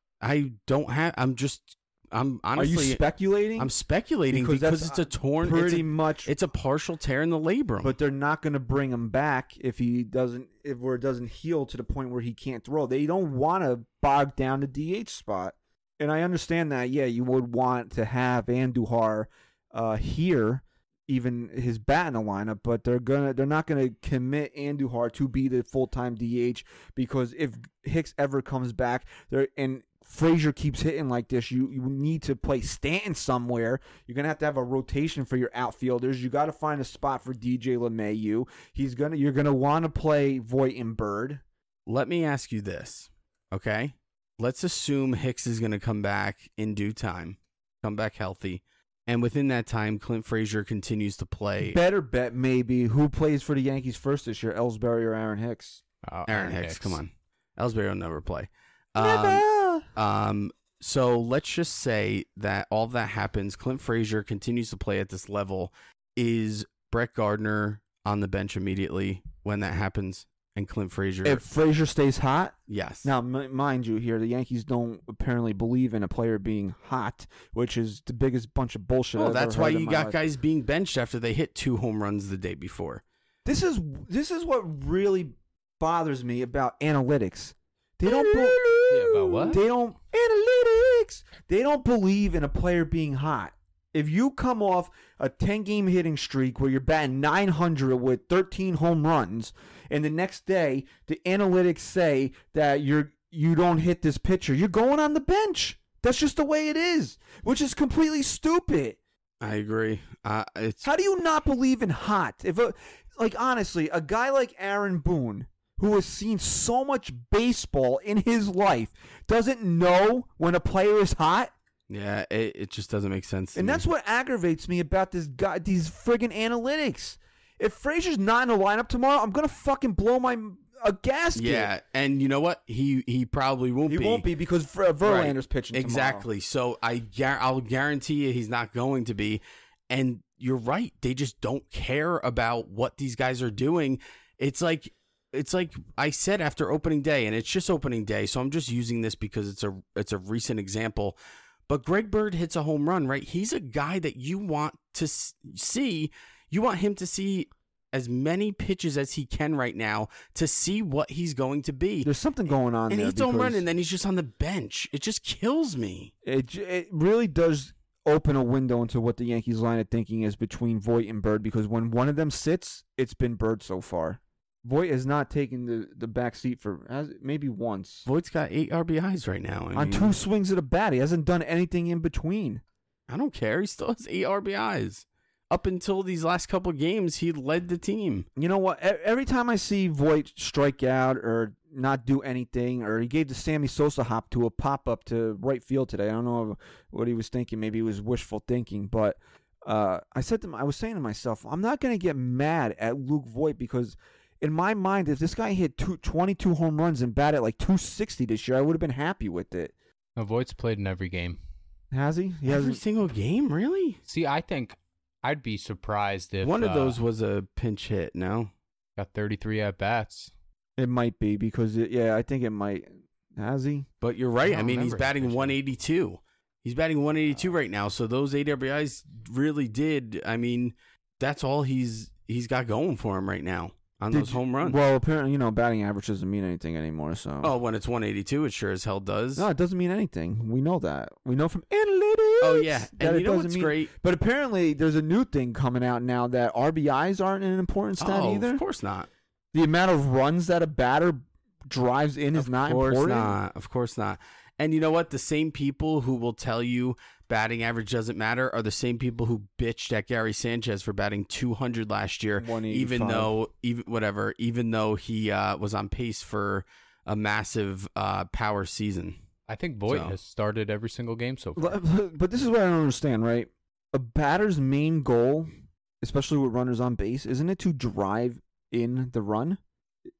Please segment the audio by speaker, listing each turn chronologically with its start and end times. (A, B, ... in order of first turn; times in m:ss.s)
0:00.2-0:03.0 A
0:02.6-0:03.7 B
0:03.6-0:07.9 A
0:04.3-0:06.3 B
0:07.8-0:41.4 B
0:41.9-0:51.8 A
0:51.6-0:55.8 B
0:56.0-0:57.0 C
0:56.3-0:59.4 A
0:59.0-0:59.8 B
1:00.0-1:11.4 A
1:11.2-1:20.2 B
1:12.7-1:13.1 A
1:19.2-1:23.0 A
1:23.4-1:49.0 B
1:28.1-1:28.9 A
1:28.9-1:29.6 C
1:49.4-1:50.9 A
1:50.8-2:01.5 B
2:01.9-2:03.8 A
2:03.5-2:11.7 B
2:11.3-2:14.2 A
2:13.9-2:16.2 B
2:15.0-2:31.2 A
2:31.7-2:42.1 A
2:42.0-2:43.6 B
2:42.9-2:46.1 A
2:46.2-2:58.1 B
2:58.0-3:00.1 A
2:59.7-3:02.6 B
3:03.1-3:08.2 A
3:08.4-3:29.7 B
3:30.2-3:31.4 C
3:31.9-3:32.8 B
3:32.5-3:34.0 A
3:34.0-3:37.0 C
3:36.4-3:38.5 A
3:39.0-3:40.3 C
3:40.8-3:43.9 B
3:44.0-3:54.8 A
3:44.4-3:45.6 C
3:54.1-3:57.5 B
3:57.4-3:59.5 A
3:59.4-4:08.6 B
4:02.4-4:03.9 A
4:08.0-4:09.1 A
4:09.5-4:13.4 B
4:12.3-4:29.1 A
4:22.4-4:23.3 B
4:29.5-4:31.8 C
4:29.8-4:30.2 A
4:31.6-4:35.5 B
4:36.0-4:39.6 B